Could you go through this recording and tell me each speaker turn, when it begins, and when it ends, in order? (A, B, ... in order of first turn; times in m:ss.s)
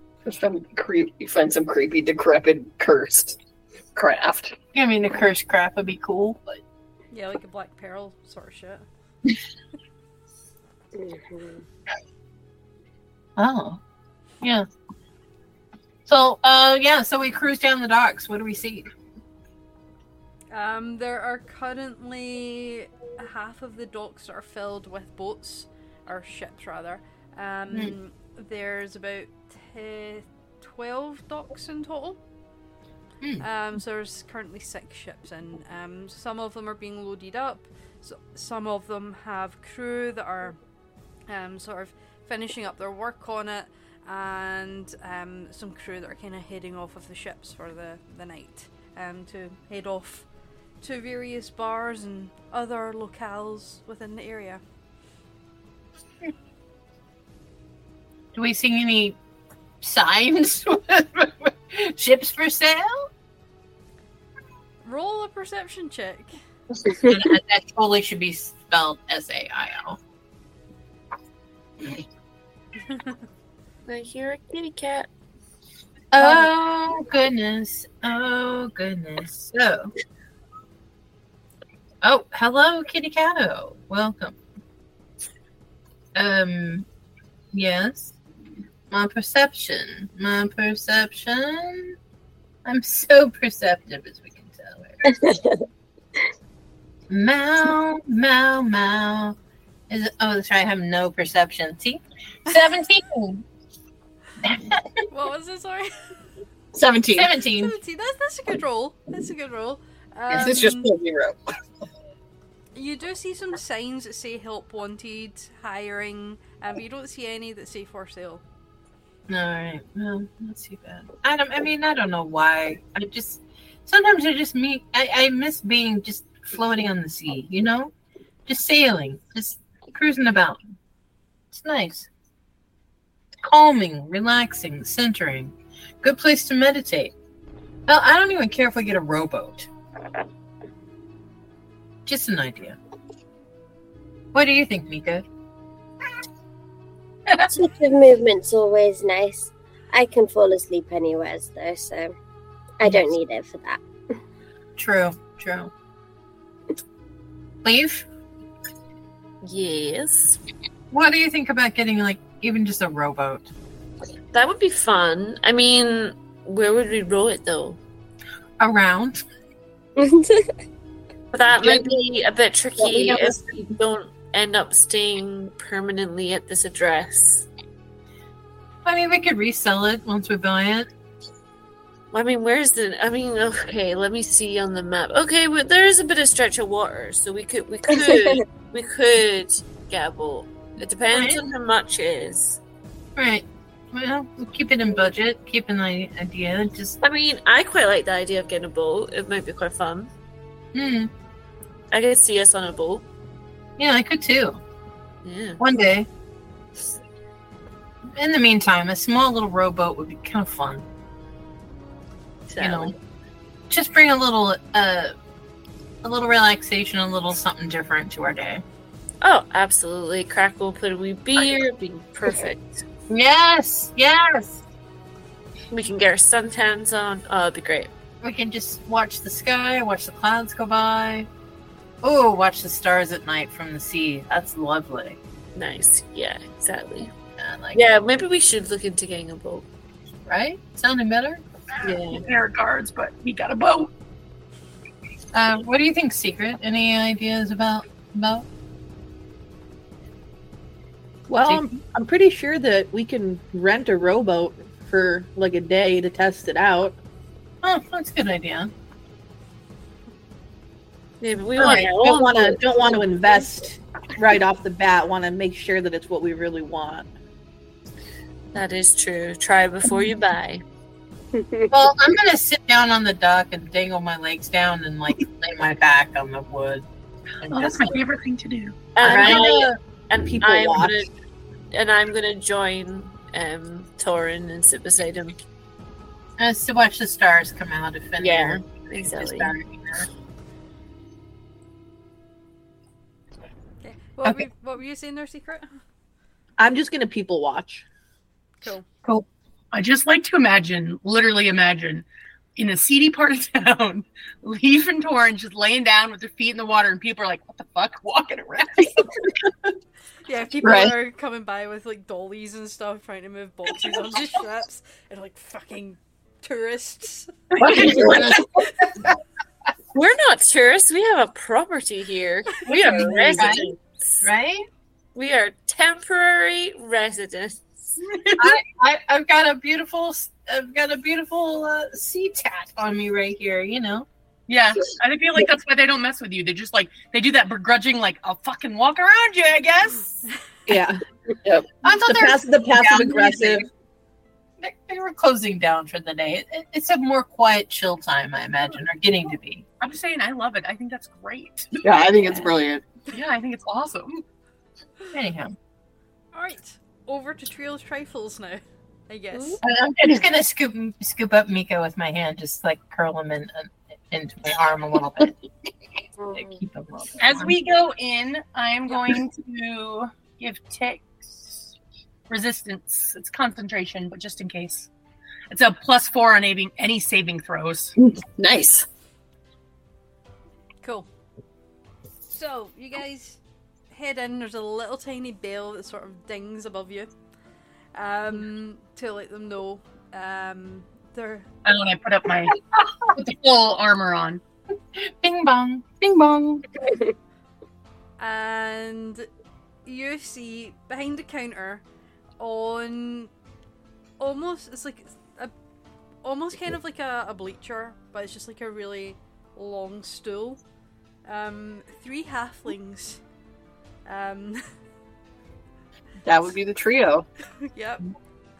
0:00.2-0:03.4 A
0:03.9-0:04.6 A
0:04.7-0:06.6 B
0:07.1-0:08.8 C
0:11.0-0:11.6 D
0:13.4-0:13.8 B
0:14.4-0:14.7 B
0:16.0-0:18.9 B
0:20.5-0:32.2 C
0:33.4-0:40.6 C
0:41.3-0:50.2 C
0:50.8-0:54.6 C
0:58.3-0:59.2 B
0:59.8-1:03.1 B
1:04.8-1:06.4 C
1:06.9-1:10.0 B
1:13.9-1:15.1 E
1:16.1-1:19.9 B
1:22.0-1:24.4 B
1:26.1-1:26.8 B
1:27.5-1:28.2 B
1:28.9-1:31.9 B
1:32.6-1:35.0 B
1:35.1-1:35.6 D
1:37.1-1:39.4 B
1:39.9-1:43.4 B
1:44.4-1:44.8 B
1:45.1-1:45.9 C
1:46.7-1:47.3 A
1:47.2-1:47.7 B
1:47.5-1:50.9 C
1:50.3-1:51.4 A
1:52.7-1:58.4 C
1:59.3-2:07.9 B
2:08.5-2:10.7 B
2:11.5-2:12.1 B
2:13.4-2:17.1 B
2:17.9-2:19.7 B
2:22.0-2:22.8 B
2:24.3-2:25.2 B
2:27.4-2:32.1 D
2:32.8-2:33.8 D
2:34.8-2:35.7 B
2:37.6-2:38.0 B
2:39.4-2:40.4 E
2:40.9-2:43.5 B
2:44.3-2:47.8 E
2:48.6-2:49.2 B
2:50.0-2:50.5 D
2:51.3-2:57.5 E
2:53.0-2:53.4 B
2:58.8-3:00.9 B
3:02.1-3:12.6 E
3:07.9-3:08.4 D
3:11.1-3:11.4 B
3:13.2-3:17.0 B
3:17.0-3:20.1 E
3:20.7-3:21.1 B
3:21.9-3:23.0 E
3:23.8-3:24.6 B
3:25.2-3:25.6 E
3:25.6-3:26.1 B
3:28.1-3:30.8 B
3:32.5-3:32.9 E
3:32.6-3:32.9 B
3:33.7-3:35.1 B
3:36.0-3:38.6 B
3:39.2-3:42.8 E
3:43.1-3:44.6 B
3:45.7-3:47.9 E
3:48.2-3:51.3 B
3:52.0-3:55.2 B
3:55.5-3:57.1 E
3:57.4-3:58.0 B
3:57.7-3:59.7 E
4:00.3-4:01.4 B
4:01.8-4:03.9 F
4:01.8-4:02.2 E
4:05.3-4:08.5 B
4:11.3-4:17.0 G
4:17.6-4:18.7 B
4:21.2-4:22.6 E
4:21.6-4:27.1 G
4:28.5-4:30.6 E
4:31.4-4:31.7 D
4:31.7-4:36.8 B
4:37.4-4:37.9 B
4:37.5-4:38.9 F
4:39.0-4:41.1 E
4:39.0-4:39.8 B
4:39.0-4:39.5 G
4:40.2-4:41.0 G
4:41.7-4:45.4 E
4:46.4-4:50.1 B
4:48.2-4:49.5 E
4:53.8-4:55.7 C
4:56.6-4:57.8 G
4:59.7-5:02.0 F
5:02.6-5:09.1 F
5:10.2-5:17.3 C
5:10.6-5:10.9 A
5:17.6-5:18.5 A
5:17.6-5:18.2 F
5:19.9-5:24.2 E
5:22.8-5:23.6 F
5:22.8-5:23.6 B
5:24.2-5:24.6 B
5:25.1-5:28.0 E
5:28.0-5:28.6 F
5:28.4-5:34.1 B
5:34.5-5:40.2 F
5:40.7-5:41.0 G
5:41.8-5:43.7 B
5:41.9-5:43.7 G
5:44.6-5:49.6 B
5:49.8-5:51.8 F
5:51.8-5:52.8 A
5:53.1-5:54.2 F
5:55.1-5:55.6 B
5:56.3-5:59.6 C
5:59.6-6:05.4 B
5:59.8-6:00.1 F
6:06.3-6:07.5 B
6:07.2-6:11.7 F
6:12.3-6:14.9 F
6:15.5-6:17.9 F
6:18.0-6:18.8 A
6:20.8-6:21.1 C
6:22.2-6:23.4 C
6:23.9-6:27.1 C
6:27.9-6:31.5 C
6:31.6-6:32.6 F
6:33.1-6:34.4 F
6:35.0-6:36.6 B
6:38.2-6:39.3 C
6:39.8-6:41.8 C
6:42.4-6:43.3 C
6:44.2-6:45.5 C
6:46.2-6:50.6 C
6:51.2-6:53.2 C
6:54.0-6:54.6 C
6:56.2-6:57.3 A
6:57.6-6:58.0 C